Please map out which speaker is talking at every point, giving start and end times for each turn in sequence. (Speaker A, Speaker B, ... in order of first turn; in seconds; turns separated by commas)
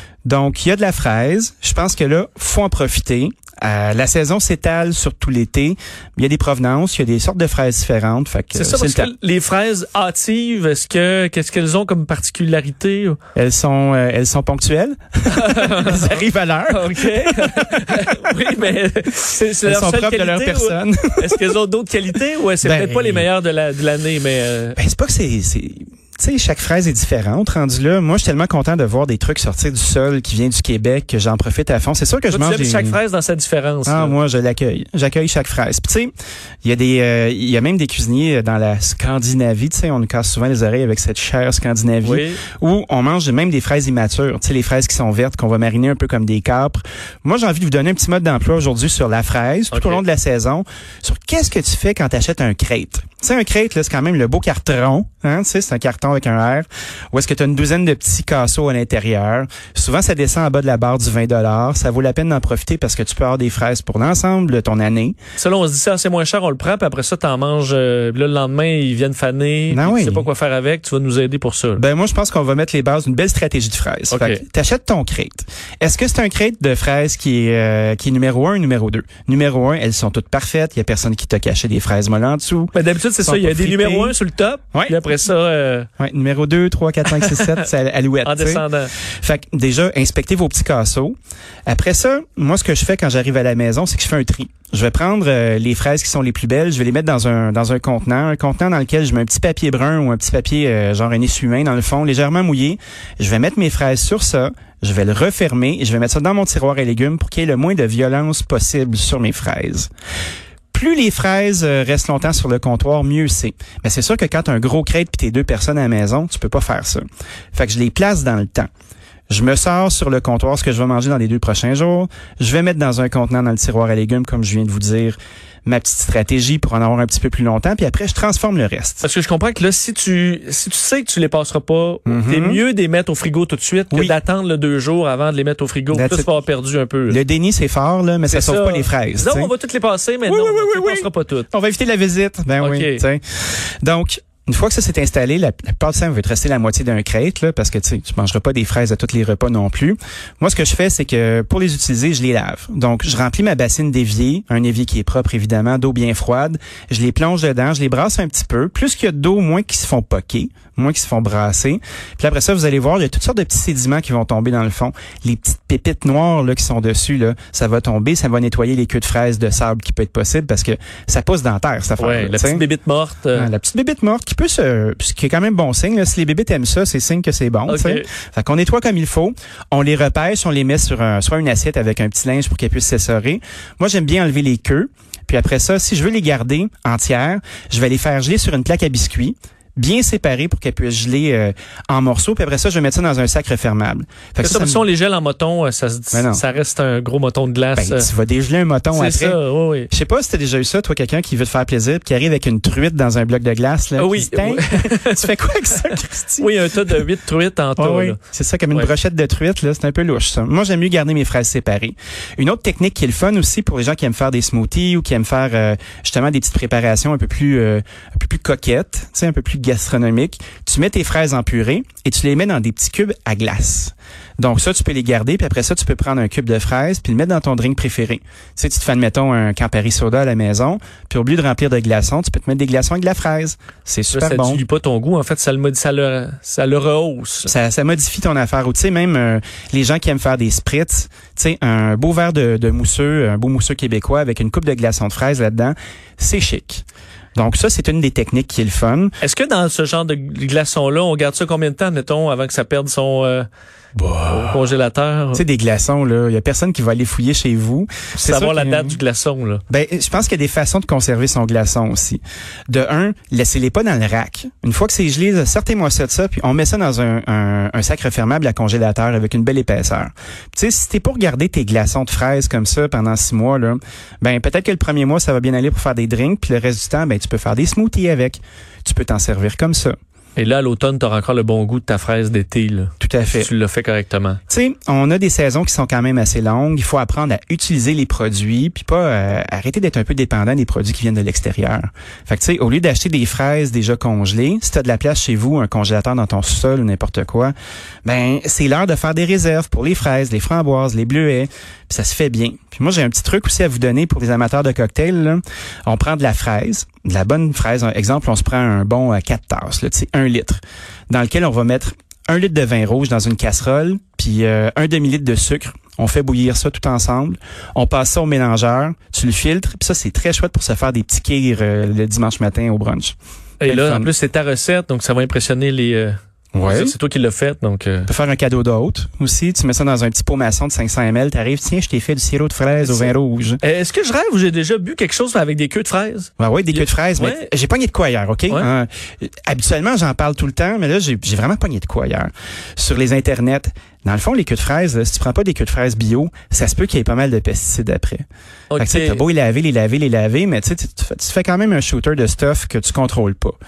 Speaker A: 0.2-9.1, Speaker B: 8.5-13.2, Speaker A: 13.3-18.3, Speaker B: 15.3-24.8, Speaker A: 19.6-21.5, Speaker A: 22.6-23.3, Speaker A: 24.8-33.0, Speaker B: 32.3-34.1, Speaker A: 33.9-36.1, Speaker A: 36.6-65.2, Speaker B: 42.0-42.4, Speaker B: 49.7-50.0, Speaker B: 65.4-71.8, Speaker A: 69.7-70.3, Speaker A: 71.8-84.1, Speaker B: 74.1-74.4, Speaker B: 82.7-85.9, Speaker A: 84.7-85.0, Speaker A: 86.0-91.1, Speaker B: 87.0-87.6, Speaker B: 88.2-88.9, Speaker A: 91.7-109.9, Speaker A: 110.7-118.7, Speaker A: 119.3-129.0, Speaker B: 129.0-137.2, Speaker A: 132.1-132.6, Speaker A: 133.9-134.2, Speaker A: 135.9-136.3, Speaker A: 137.1-139.5, Speaker B: 138.3-141.5, Speaker A: 140.3-172.6, Speaker B: 142.6-143.0, Speaker B: 172.0-173.5, Speaker A: 173.3-194.8, Speaker B: 177.7-178.1, Speaker B: 194.4-198.1, Speaker A: 196.1-196.4, Speaker A: 197.8-207.0, Speaker B: 198.9-199.9, Speaker B: 204.0-208.2, Speaker A: 207.8-234.6, Speaker B: 234.1-237.5, Speaker A: 237.4-246.8, Speaker A: 247.3-249.2, Speaker B: 249.2-253.5, Speaker A: 254.0-254.6, Speaker B: 254.3-255.4, Speaker A: 255.3-259.0, Speaker B: 258.2-259.6, Speaker A: 259.7-279.9, Speaker B: 280.4-284.4, Speaker A: 283.0-283.5, Speaker A: 284.5-297.5, Speaker A: 298.0-324.1, Speaker B: 323.6-328.1, Speaker A: 326.5-326.9, Speaker A: 328.1-333.6, Speaker B: 332.8-337.5, Speaker A: 336.4-348.2, Speaker B: 348.7-349.2, Speaker A: 348.8-353.6